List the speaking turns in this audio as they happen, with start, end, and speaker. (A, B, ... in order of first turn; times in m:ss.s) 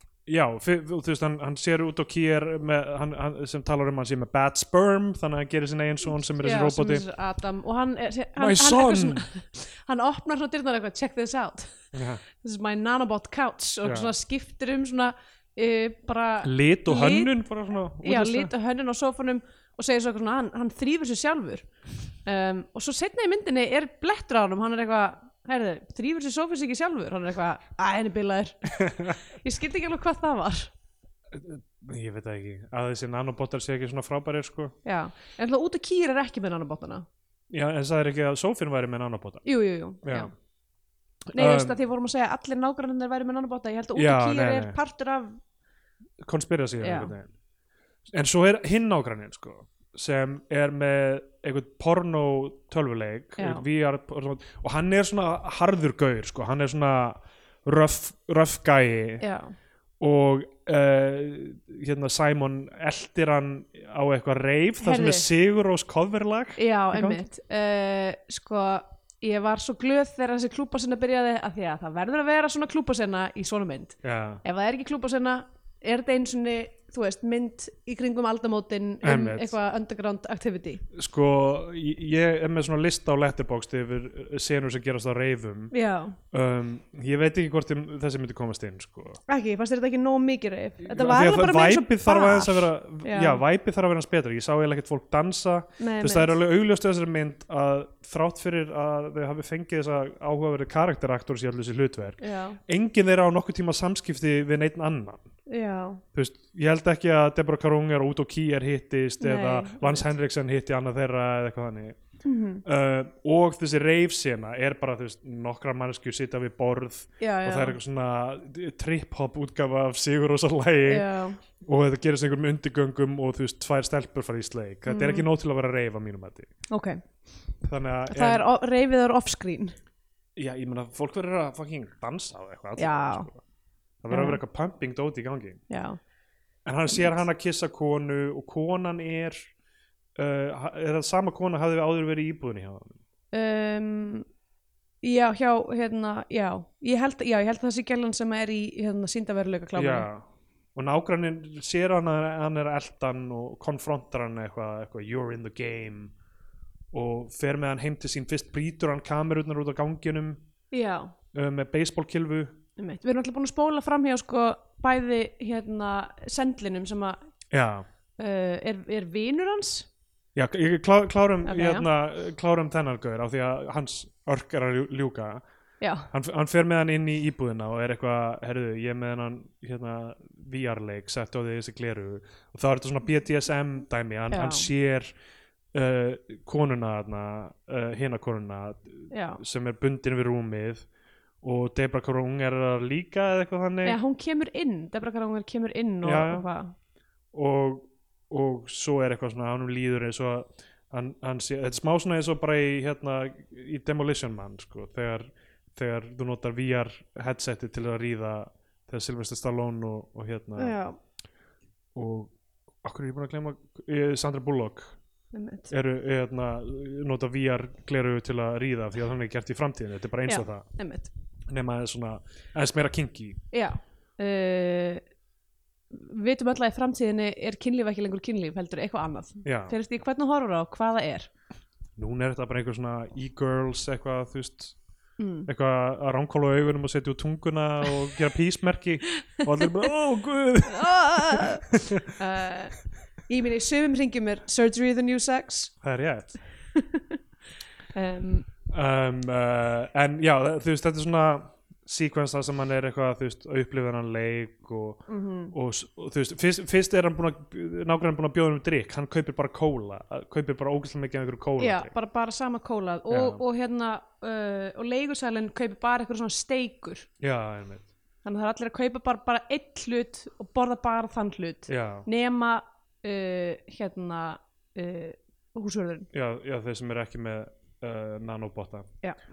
0:00.3-0:07.0 A
0:06.4-0:17.3 B
0:08.4-0:09.2 A
0:11.9-0:12.2 A
0:13.8-0:14.1 A
0:16.4-0:18.5 A
0:18.0-0:21.7 B
0:22.2-0:30.7 B
0:31.3-0:34.8 A
0:34.8-0:37.1 B
0:37.5-0:39.4 A
0:39.4-0:40.3 B
0:40.0-0:40.3 A
0:41.3-0:41.8 A
0:41.4-0:45.4 B
0:44.0-0:44.8 A
0:46.2-0:47.3 A
0:46.8-0:47.1 B
0:48.1-0:59.2 A
0:53.4-0:53.6 B
0:59.2-0:59.5 B
1:00.0-1:07.2 A
1:04.8-1:05.3 B
1:06.6-1:20.8 B
1:14.0-1:14.4 A
1:19.0-1:19.6 A
1:20.9-1:25.7 A
1:25.7-1:26.2 B
1:26.3-1:29.2 A
1:29.3-1:33.4 B
1:30.9-1:45.3 A
1:35.8-1:36.4 B
1:42.2-1:42.6 B
1:45.5-1:46.0 B
1:46.1-1:52.0 A
1:49.2-1:50.1 B
1:52.2-1:52.6 B
1:52.6-2:01.1 A
1:57.2-1:57.8 B
2:00.9-2:01.4 B
2:01.6-2:06.5 A
2:04.9-2:05.3 B
2:06.7-2:07.0 B
2:07.6-2:08.5 A
2:08.1-2:09.8 B
2:10.4-2:13.4 A
2:12.8-2:13.3 B
2:14.0-2:15.6 A
2:14.1-2:14.4 B
2:15.7-2:16.0 B
2:16.6-2:19.5 A
2:16.9-2:17.2 B
2:20.2-2:23.0 A
2:23.3-2:24.2 B
2:25.0-2:30.1 B
2:29.8-2:30.2 A
2:30.8-2:36.1 A
2:36.9-2:40.4 A
2:40.7-2:41.1 B
2:41.3-2:42.6 A
2:42.8-2:47.2 B
2:47.5-2:47.9 A
2:48.2-2:49.9 B
2:50.4-2:55.4 A
2:51.4-2:51.9 B
2:55.8-2:56.1 B
2:56.1-3:05.1 A
3:04.3-3:04.7 B
3:05.7-3:10.9 A
3:09.1-3:09.4 B
3:11.4-3:14.0 A
3:13.8-3:16.7 B
3:16.0-3:16.4 A
3:17.3-3:30.8 A
3:30.6-3:31.0 B
3:32.0-3:35.0 A
3:35.3-3:35.7 B
3:35.7-3:40.6 A
3:40.3-3:41.1 B
3:41.5-3:43.4 A
3:43.5-3:45.0 B
3:45.9-3:51.3 B
3:49.4-3:49.8 A
3:52.0-3:54.8 A
3:55.2-3:55.5 B
3:55.5-4:02.1 A
4:00.7-4:02.8 B
4:03.3-4:05.7 B
4:05.8-4:06.4 A
4:06.8-4:07.2 B
4:07.9-4:08.5 B
4:08.7-4:21.9 A
4:15.1-4:15.5 B
4:21.6-4:27.1 B
4:23.1-4:23.4 A
4:27.2-4:27.9 A
4:28.2-4:36.1 B
4:31.7-4:32.1 A
4:36.1-4:38.9 A